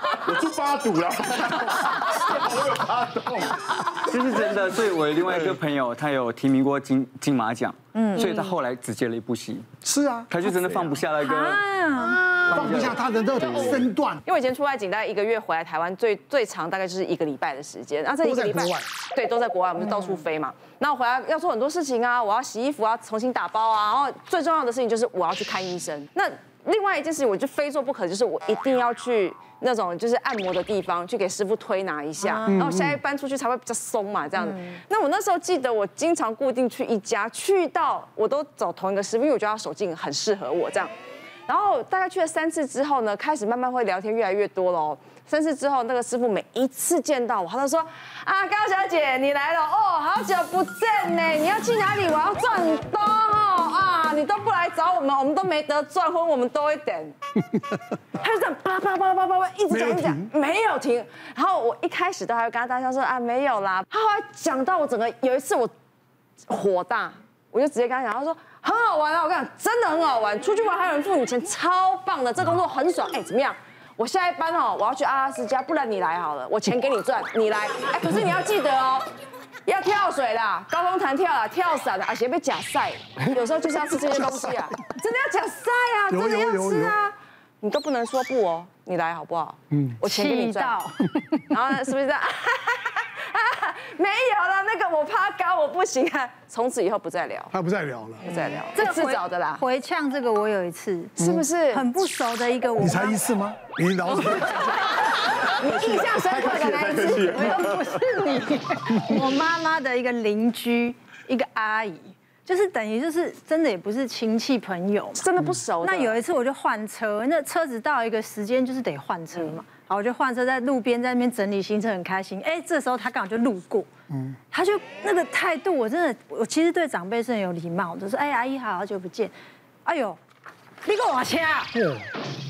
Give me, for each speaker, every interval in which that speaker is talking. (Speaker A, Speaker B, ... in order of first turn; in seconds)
Speaker A: 0.2-3.8, 106.3-107.9
Speaker B: 4.0-9.7, 10.3-11.6, 12.4-13.8
Speaker C: 7.9-8.2, 11.2-12.2, 32.2-32.7, 34.4-34.8, 90.0-91.0, 98.3-103.2, 104.2-105.0, 105.7-115.2, 115.8-123.9, 124.5-129.3, 129.8-130.2, 130.8-131.7
Speaker D: 8.2-8.5, 13.5-40.9, 41.5-57.1, 58.2-65.7, 66.5-79.1, 79.7-90.8, 91.5-97.5, 98.2-99.6, 101.2-101.8, 105.5-107.7, 115.1-116.2, 119.3-119.6
Speaker E: 9.8-10.3, 12.5-14.2, 18.2-18.9, 32.5-33.0, 59.7-60.3, 83.9-84.9, 86.1-87.0, 89.7-90.0, 97.5-98.3, 102.8-104.5, 124.1-124.4, 131.7-132.1